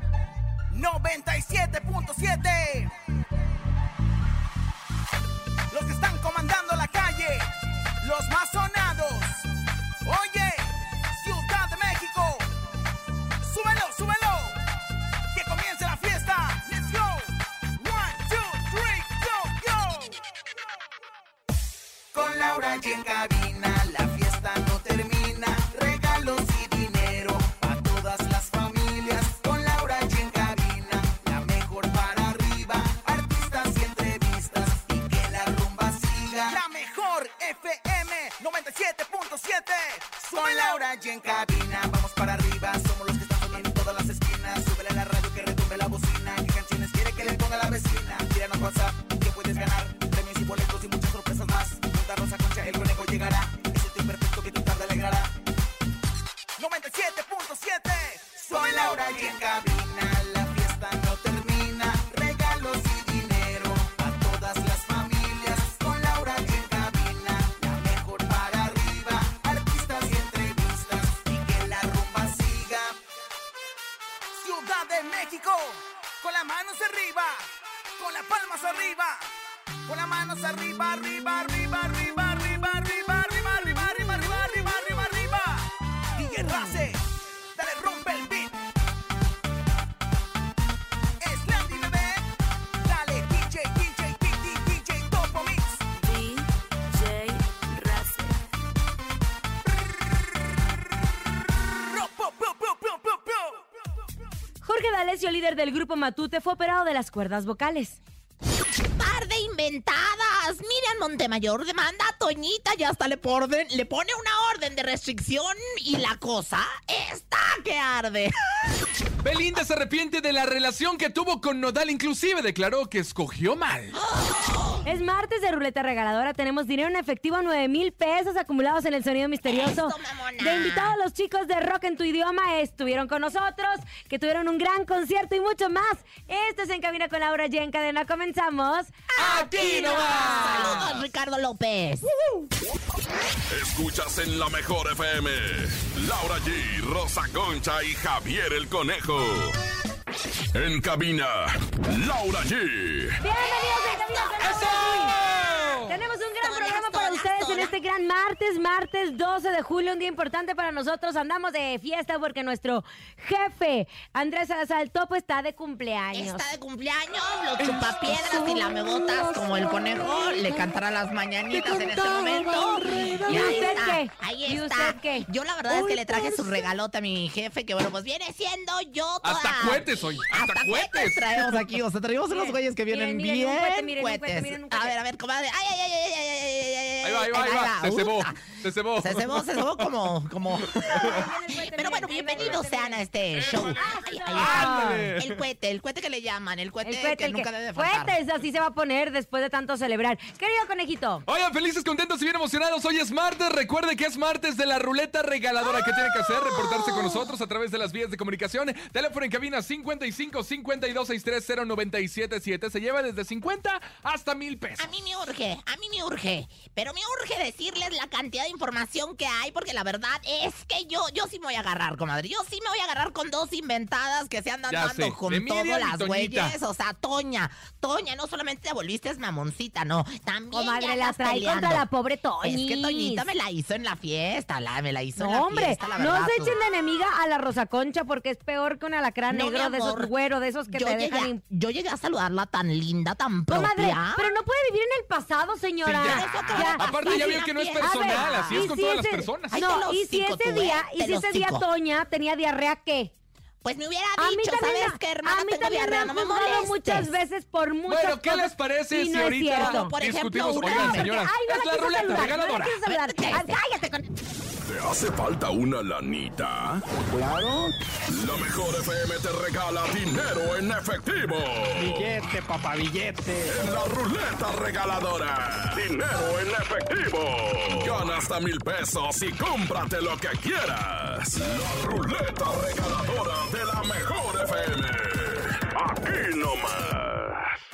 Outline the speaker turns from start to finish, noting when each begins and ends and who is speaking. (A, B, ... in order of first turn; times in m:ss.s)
0:00.7-0:02.9 A
0:05.7-0:07.5 A
0:08.0-0:09.5 A
0:10.0-0:12.4 A
0:13.4-0:14.6 A
0:15.3-0:20.2 A
0:22.1-0:55.3 A
0:56.6-1:13.0 A
1:14.4-1:19.3 A
1:19.9-1:27.0 A
1:27.6-1:28.6 A
1:31.2-1:32.3 A
1:32.8-1:35.8 A
1:36.1-1:36.4 B
1:36.9-1:38.1 B
1:41.9-1:43.6 A
1:44.6-1:48.0 B
1:48.8-1:58.3 C
1:59.2-2:04.0 D
2:03.9-2:04.9 C
2:04.8-2:18.9 B
2:09.4-2:11.0 C
2:19.1-2:22.1 C
2:19.2-2:21.0 D
2:23.5-2:29.6 E
2:30.5-2:33.2 E
2:33.2-2:35.2 B
2:33.4-2:35.2 C
2:34.4-2:35.9 D
2:35.8-2:46.5 B
2:36.4-2:37.8 C
2:46.1-3:18.2 C
2:48.1-2:48.5 D
2:51.5-2:52.5 D
2:53.2-2:55.3 B
2:59.2-3:01.7 D
3:02.3-3:05.0 B
3:07.0-3:09.9 D
3:11.0-3:15.1 B
3:13.4-3:13.8 D
3:14.3-3:15.4 D
3:16.8-3:21.2 B
3:21.3-3:34.9 D
3:34.8-3:51.9 C
3:44.7-3:46.6 D
3:50.5-3:53.3 B
3:52.4-3:56.6 C
3:55.2-4:01.4 B
3:59.3-4:00.1 C
4:00.7-4:04.3 C
4:03.5-4:07.2 B
4:05.9-4:09.6 D
4:05.9-4:08.7 C
4:07.8-4:13.1 B
4:09.5-4:11.6 C
4:13.6-4:17.1 C
4:14.2-4:19.9 B
4:17.9-4:22.8 D
4:19.5-4:21.1 C
4:20.6-4:23.9 B
4:22.2-4:24.0 C
4:24.7-4:26.8 E
4:28.1-4:32.2 E
4:32.6-4:33.4 D
4:33.4-4:47.6 E